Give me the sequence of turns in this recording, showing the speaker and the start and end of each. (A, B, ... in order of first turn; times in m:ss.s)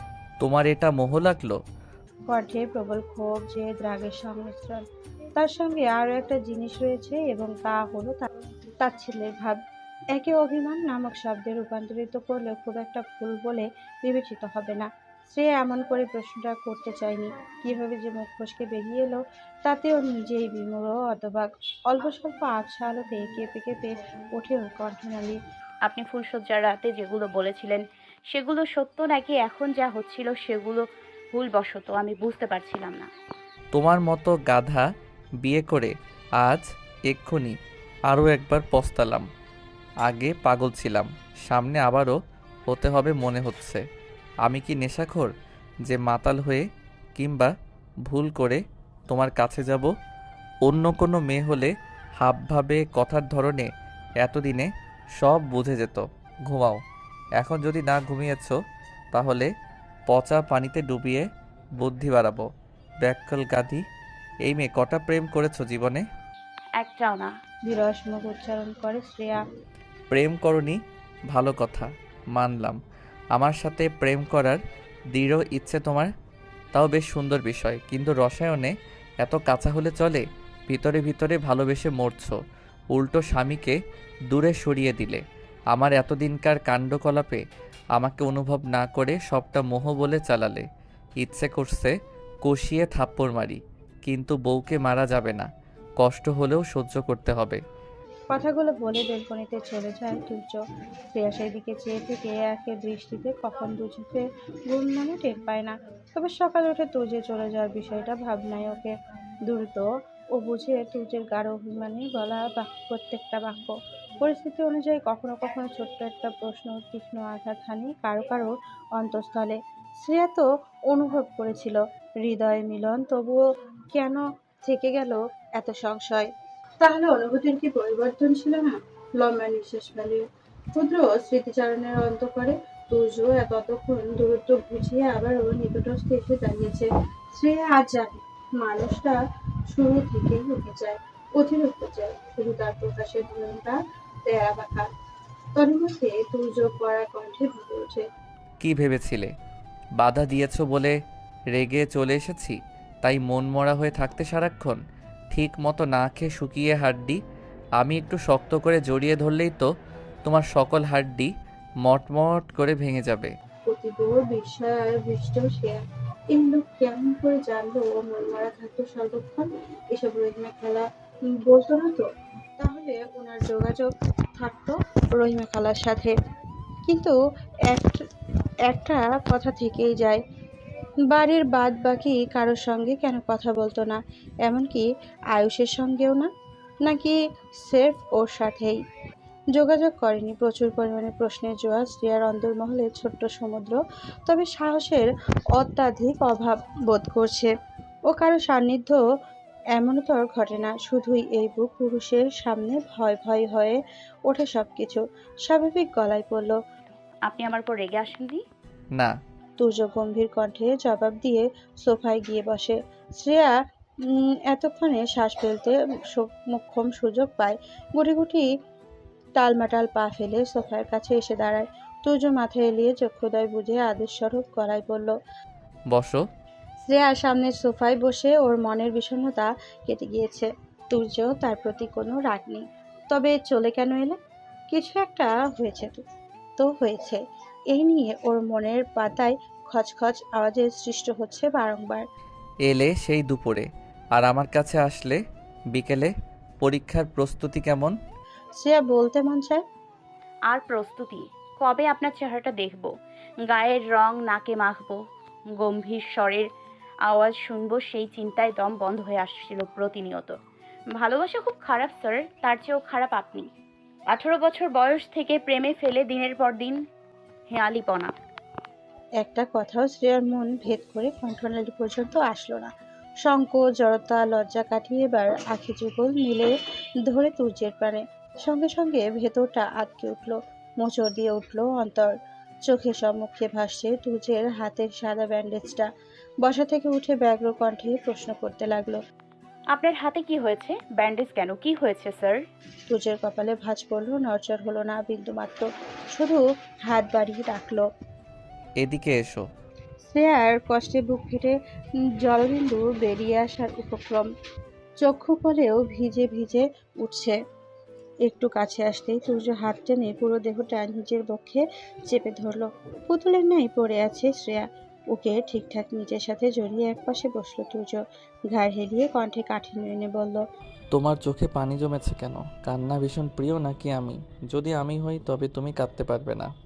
0:00.4-0:01.6 A
0:02.3-0:04.8 B
0:05.4-0:08.3 B
0:08.8-0:09.6 B
0:10.1-0:25.4 B
0:25.8-0:33.1 C
0:33.7-0:34.9 A
0:35.4-0:37.6 A
0:38.1-0:39.3 A
0:40.0-0:42.2 A
0:42.7-0:43.8 A
0:44.4-0:45.3 A
0:45.8-0:47.5 A
0:48.1-0:49.9 A
0:50.6-0:53.7 A
0:54.2-0:56.8 A
0:57.4-0:58.6 A
0:59.1-0:59.5 A
1:00.1-1:01.2 A
1:01.8-1:02.5 A
1:03.0-1:03.8 A
1:04.4-1:06.0 A
1:06.8-1:07.3 C
1:07.7-1:09.4 B
1:10.1-1:10.8 A
1:11.3-1:12.8 A
1:13.3-1:14.6 A
1:15.1-1:16.1 A
1:16.7-1:22.4 A
1:22.9-1:23.8 A
1:24.3-1:27.4 A
1:27.9-1:30.6 A
1:31.2-1:35.5 A
1:36.0-1:37.6 A
1:38.3-1:40.6 B
1:41.1-1:48.9 B
1:49.4-2:10.2 B
2:10.7-2:24.9 B
2:25.6-2:28.1 B
2:28.6-2:29.3 A
2:30.0-2:31.0 A
2:31.5-2:34.8 A
2:35.3-2:37.2 A
2:37.8-2:39.7 A
2:40.2-2:41.3 A
2:41.8-2:43.3 A
2:43.7-2:45.8 B
2:46.3-2:50.8 B
2:51.4-2:52.1 B
2:52.6-2:56.1 B
2:56.8-2:57.2 B
2:57.7-2:58.0 B
2:58.7-3:00.2 B
3:01.0-3:06.3 B
3:06.8-3:08.8 B
3:09.5-3:17.5 B
3:18.1-3:19.0 B
3:19.8-3:26.6 B
3:27.2-3:28.4 C
3:29.6-3:33.6 B
3:34.1-3:38.5 B
3:39.4-3:45.2 B
3:45.9-3:46.2 A
3:46.8-3:54.2 B
3:54.7-3:56.0 B
3:56.6-4:02.0 B
4:02.6-4:05.2 A
4:05.7-4:08.0 A
4:08.6-4:09.6 B
4:10.5-4:16.5 C
4:17.1-4:20.4 C
4:21.0-4:23.5 C
4:24.1-4:26.8 C
4:27.5-4:28.1 C
4:29.2-4:32.7 B
4:33.2-4:36.5 B
4:37.0-4:42.1 B
4:42.6-4:45.9 B
4:46.4-4:49.0 B
4:49.7-4:52.4 C
4:52.9-4:57.9 B
4:58.8-4:59.4 A
5:00.0-5:01.6 B
5:02.2-5:04.3 B
5:05.0-5:07.4 B
5:08.2-5:20.4 B
5:20.9-5:26.5 A